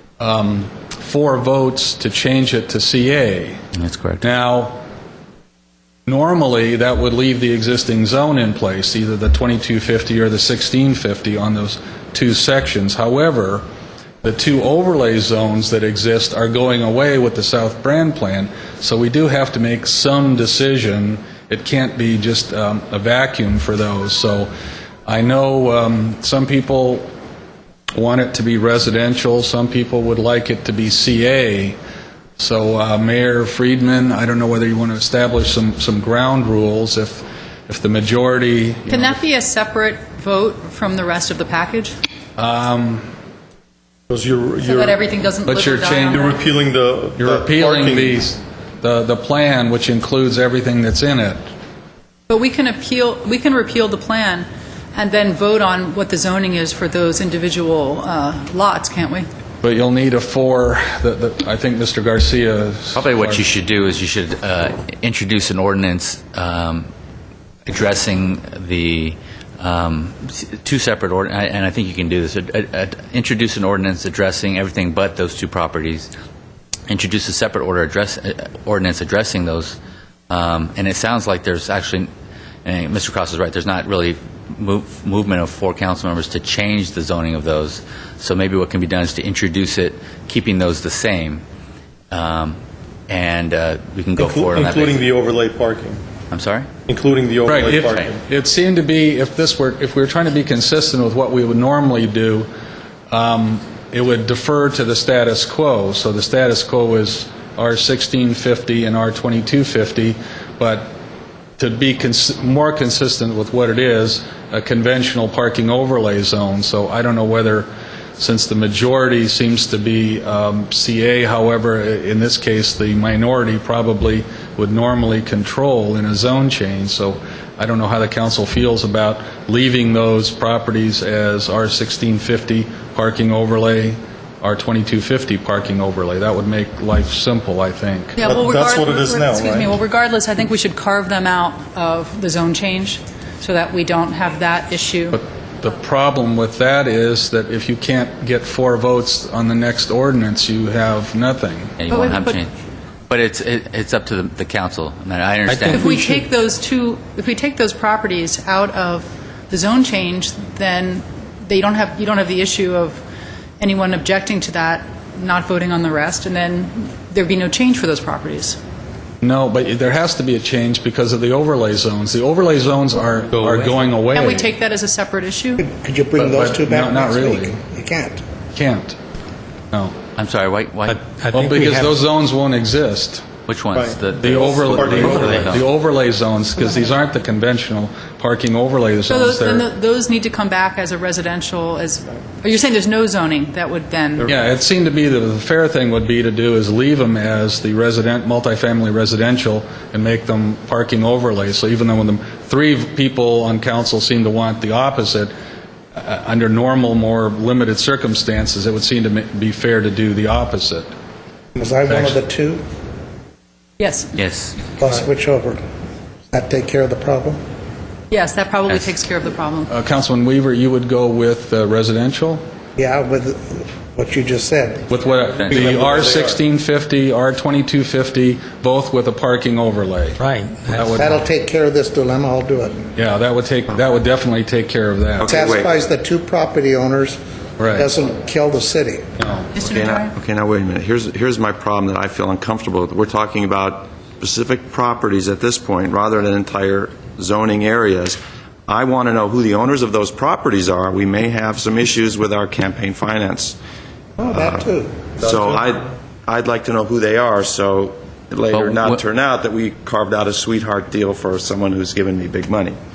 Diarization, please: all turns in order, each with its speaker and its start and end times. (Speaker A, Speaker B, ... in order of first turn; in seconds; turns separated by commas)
Speaker A: 0.2-3.6, Speaker B: 3.8-4.2, Speaker A: 4.2-4.8, Speaker A: 6.1-13.7, Speaker A: 14.2-24.5, Speaker A: 25.1-27.1, Speaker A: 27.9-31.8, Speaker A: 32.4-39.2, Speaker C: 38.9-42.0, Speaker A: 42.4-43.1, Speaker D: 44.1-45.0, Speaker C: 44.6-46.5, Speaker A: 45.4-46.4, Speaker D: 46.2-48.2, Speaker A: 47.2-51.4, Speaker C: 52.3-59.3, Speaker A: 59.6-63.4, Speaker B: 62.9-66.9, Speaker B: 67.7-76.1, Speaker B: 76.9-79.8, Speaker B: 80.3-82.1, Speaker B: 82.7-91.4, Speaker B: 92.1-92.6, Speaker B: 93.1-95.1, Speaker D: 94.2-96.0, Speaker B: 96.3-96.7, Speaker D: 96.9-98.2, Speaker A: 97.5-102.5, Speaker B: 97.9-98.1, Speaker A: 103.1-110.9, Speaker A: 111.6-138.2, Speaker C: 138.2-145.2, Speaker D: 138.2-139.8, Speaker A: 145.1-151.8, Speaker B: 151.8-152.5, Speaker C: 151.9-152.4, Speaker B: 153.1-155.9, Speaker E: 155.5-156.3, Speaker C: 155.7-163.0, Speaker C: 163.6-168.6, Speaker A: 169.2-174.5, Speaker C: 174.1-175.6, Speaker F: 175.6-178.2, Speaker A: 176.2-177.6, Speaker A: 178.5-179.0, Speaker A: 179.7-180.0, Speaker B: 180.2-181.0, Speaker E: 180.9-182.0, Speaker A: 181.3-183.3, Speaker B: 183.5-185.7, Speaker D: 183.7-185.6, Speaker A: 184.2-189.7, Speaker C: 189.1-194.3, Speaker A: 194.2-205.3, Speaker A: 205.9-210.9, Speaker F: 211.6-212.6, Speaker A: 211.9-212.2, Speaker C: 213.8-214.2, Speaker B: 214.2-214.6, Speaker F: 214.8-215.6, Speaker F: 216.3-217.4, Speaker C: 218.1-219.7, Speaker A: 219.7-222.4, Speaker F: 222.8-224.9, Speaker A: 224.9-230.2, Speaker B: 225.4-225.7, Speaker D: 225.5-226.4, Speaker E: 230.2-231.1, Speaker A: 230.7-231.1, Speaker F: 231.0-232.9, Speaker A: 233.0-235.3, Speaker G: 235.2-235.7, Speaker F: 235.3-239.1, Speaker A: 237.6-237.9, Speaker A: 239.2-239.5, Speaker C: 239.5-240.1, Speaker G: 239.6-253.6, Speaker F: 254.2-255.1, Speaker G: 254.3-262.8, Speaker B: 258.5-259.0